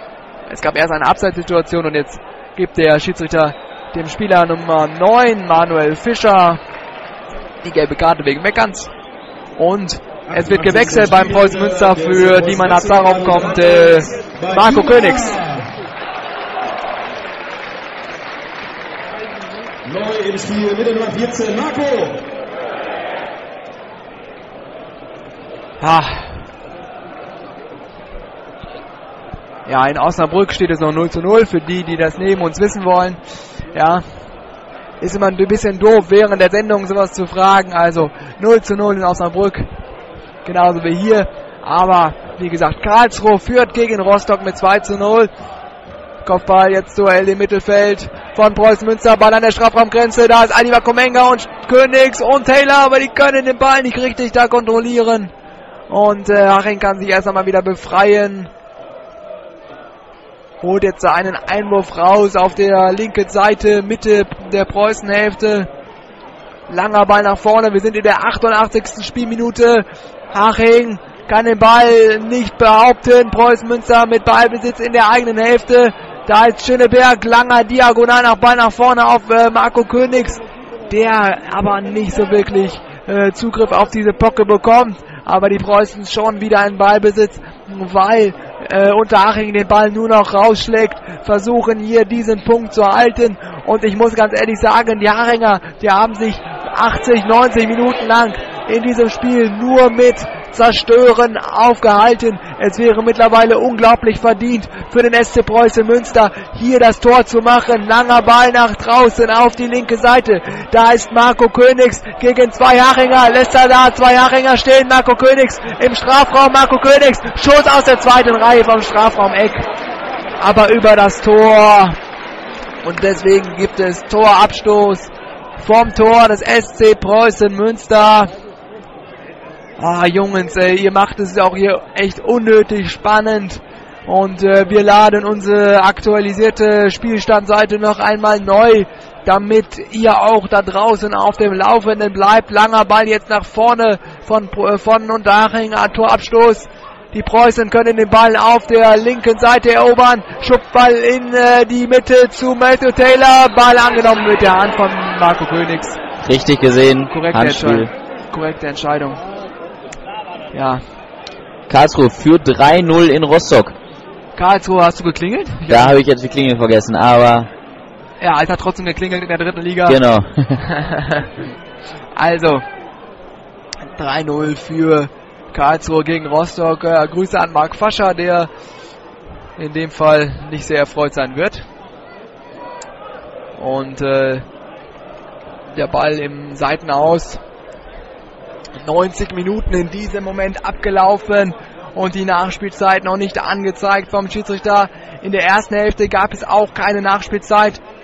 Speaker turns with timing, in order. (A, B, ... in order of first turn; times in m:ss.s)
0:00.5-0:06.6 A
0:07.6-0:08.9 A
0:09.6-0:15.4 A
0:10.3-0:15.7 B
0:19.8-0:22.2 B
0:25.8-0:26.4 A
0:29.7-0:33.2 A
0:33.7-0:34.0 A
0:35.0-0:39.7 A
0:40.4-0:45.3 A
0:46.2-0:55.3 A
0:55.9-0:58.5 A
1:00.6-1:05.7 A
1:06.7-1:59.6 A
2:00.4-2:02.0 A
2:02.8-2:08.3 A
2:09.8-2:36.0 A
2:36.2-2:37.9 C
2:37.1-2:39.2 A
2:40.5-2:40.8 A
2:41.7-2:43.7 C
2:44.4-2:46.0 A
2:45.7-2:47.5 C
2:48.2-2:50.0 A
2:49.8-2:50.6 C
2:50.6-2:51.3 A
2:52.2-2:52.6 A
2:53.9-2:58.5 A
2:59.6-3:01.7 A
3:03.6-3:04.4 A
3:05.7-3:07.4 A
3:08.8-3:17.8 A